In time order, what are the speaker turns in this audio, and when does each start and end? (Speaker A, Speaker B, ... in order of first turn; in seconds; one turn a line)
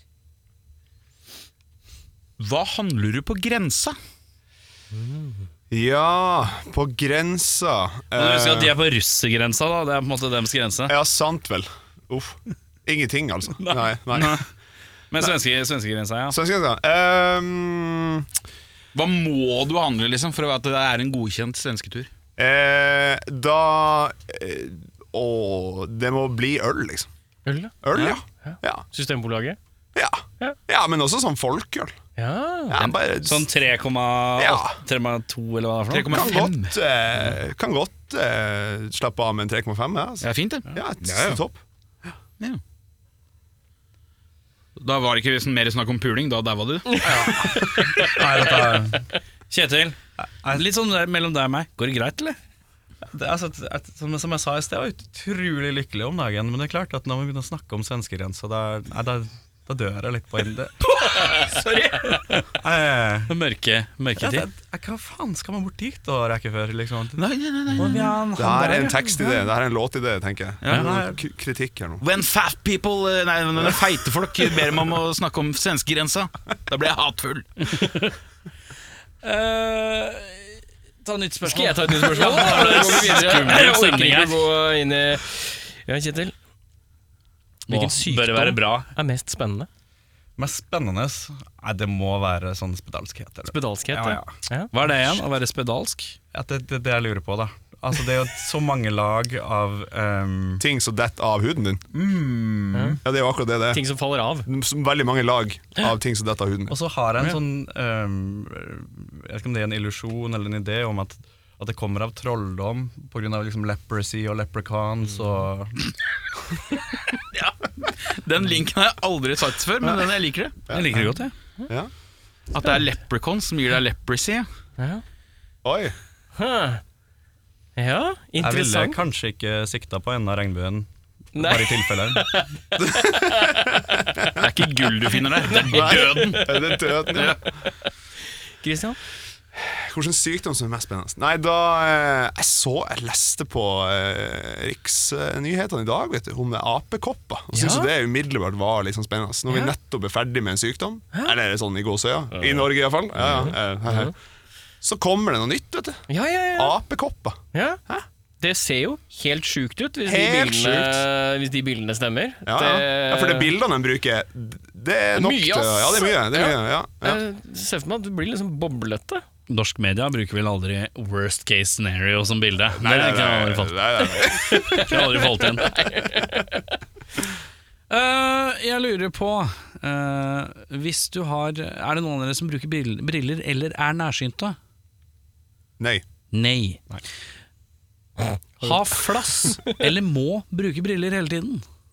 Speaker A: 2.4-4.0
Speaker B: 5.7-8.7
Speaker C: 8.2-10.9
Speaker B: 10.9-14.4
Speaker A: 14.1-14.4
Speaker C: 15.1-16.4
Speaker B: 16.3-18.3
Speaker A: 18.9-22.1
Speaker B: 22.4-27.1
Speaker D: 27.5-27.8
Speaker B: 27.8-28.8
Speaker D: 28.3-29.6
Speaker B: 29.9-31.9
Speaker D: 32.2-32.8
Speaker B: 32.7-33.5
Speaker C: 33.2-36.3
Speaker B: 34.4-34.8
Speaker A: 35.9-37.4
Speaker B: 36.1-41.6
Speaker A: 40.2-41.4
Speaker A: 44.8-47.4
Speaker E: 48.0-49.1
Speaker C: 49.5-50.0
Speaker E: 50.2-50.6
Speaker C: 50.5-52.4
Speaker E: 53.1-60.8
Speaker A: 61.2-61.9
Speaker E: 62.6-63.4
Speaker C: 63.3-64.5
Speaker E: 64.2-67.2
Speaker A: 67.2-68.2
Speaker C: 67.8-69.1
Speaker B: 68.4-72.0
Speaker A: 70.6-70.9
Speaker E: 70.7-71.2
Speaker A: 72.0-77.7
Speaker C: 77.7-78.1
Speaker C: 79.2-84.4
Speaker D: 81.5-86.3
Speaker C: 87.7-88.9
Speaker D: 87.7-89.7
Speaker E: 90.4-94.3
Speaker D: 93.5-94.7
Speaker C: 94.7-96.2
Speaker E: 96.3-100.6
Speaker B: 100.6-101.8
Speaker A: 102.0-102.5
Speaker E: 102.4-103.0
Speaker D: 102.7-103.0
Speaker B: 103.0-103.8
Speaker D: 103.7-104.5
Speaker B: 104.5-106.8
Speaker E: 106.7-115.8
Speaker A: 117.3-120.6
Speaker C: 120.7-121.3
Speaker A: 122.5-124.5
Speaker D: 124.8-125.0
Speaker B: 125.6-125.9
Speaker D: 126.3-126.8
Speaker D: 127.8-129.0
Speaker E: 128.4-132.4
Speaker D: 131.3-132.5
Speaker B: 132.8-134.2
Speaker A: 134.4-137.4
Speaker D: 135.4-136.5
Speaker B: 135.7-137.4
Speaker D: 138.6-139.0
Speaker B: 139.6-154.1
Speaker D: 147.5-147.9
Speaker D: 149.5-149.7
Speaker D: 152.3-152.7
Speaker D: 153.3-154.1
Speaker B: 154.8-158.1
Speaker D: 156.1-156.8
Speaker D: 157.5-157.8
Speaker D: 158.4-163.5
Speaker B: 160.1-161.0
Speaker B: 162.5-167.2
Speaker D: 165.2-169.2
Speaker C: 169.5-173.8
Speaker B: 172.8-175.0
Speaker D: 174.2-176.6
Speaker C: 174.7-175.8
Speaker C: 177.9-184.6
Speaker B: 185.8-186.1
Speaker C: 186.3-186.8
Speaker C: 188.6-191.6
Speaker D: 189.5-189.8